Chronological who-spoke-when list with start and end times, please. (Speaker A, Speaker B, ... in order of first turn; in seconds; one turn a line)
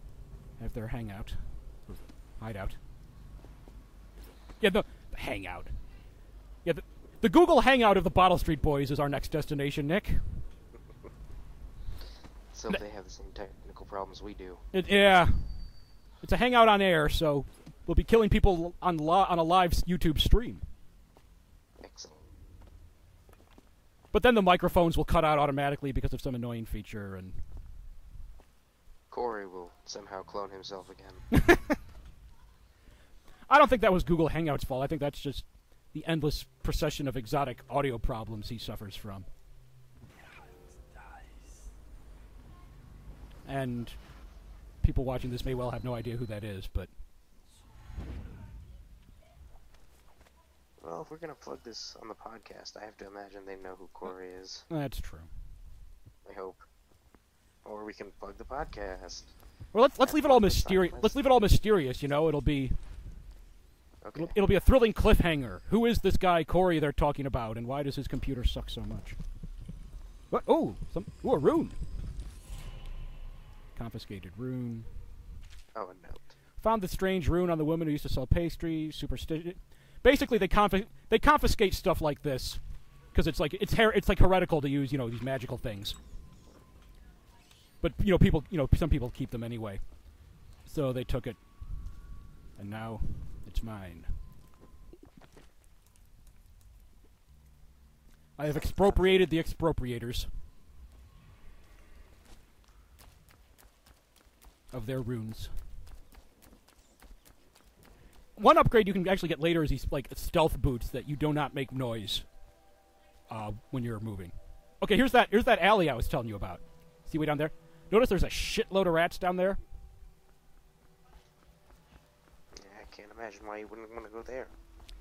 Speaker A: 0.6-2.8
Speaker A: 4.6-5.7
Speaker A: 6.6-10.4
Speaker B: 12.5-14.6
Speaker A: 14.7-20.6
Speaker B: 21.8-22.3
Speaker A: 24.1-27.4
Speaker B: 29.1-31.2
Speaker A: 31.4-31.8
Speaker A: 33.5-39.3
Speaker A: 43.5-44.2
Speaker A: 44.8-46.9
Speaker B: 50.8-54.7
Speaker A: 54.7-55.3
Speaker B: 56.2-56.7
Speaker B: 57.6-59.3
Speaker A: 59.7-62.8
Speaker B: 60.0-61.2
Speaker B: 64.0-64.4
Speaker A: 64.2-69.2
Speaker A: 70.3-71.8
Speaker A: 73.8-74.9
Speaker B: 75.8-76.3
Speaker A: 76.6-82.6
Speaker A: 83.1-86.0
Speaker A: 87.8-92.0
Speaker A: 92.6-94.1
Speaker A: 98.4-100.3
Speaker B: 98.5-99.3
Speaker A: 104.7-105.5
Speaker A: 108.4-112.3
Speaker A: 113.3-119.6
Speaker B: 122.5-124.5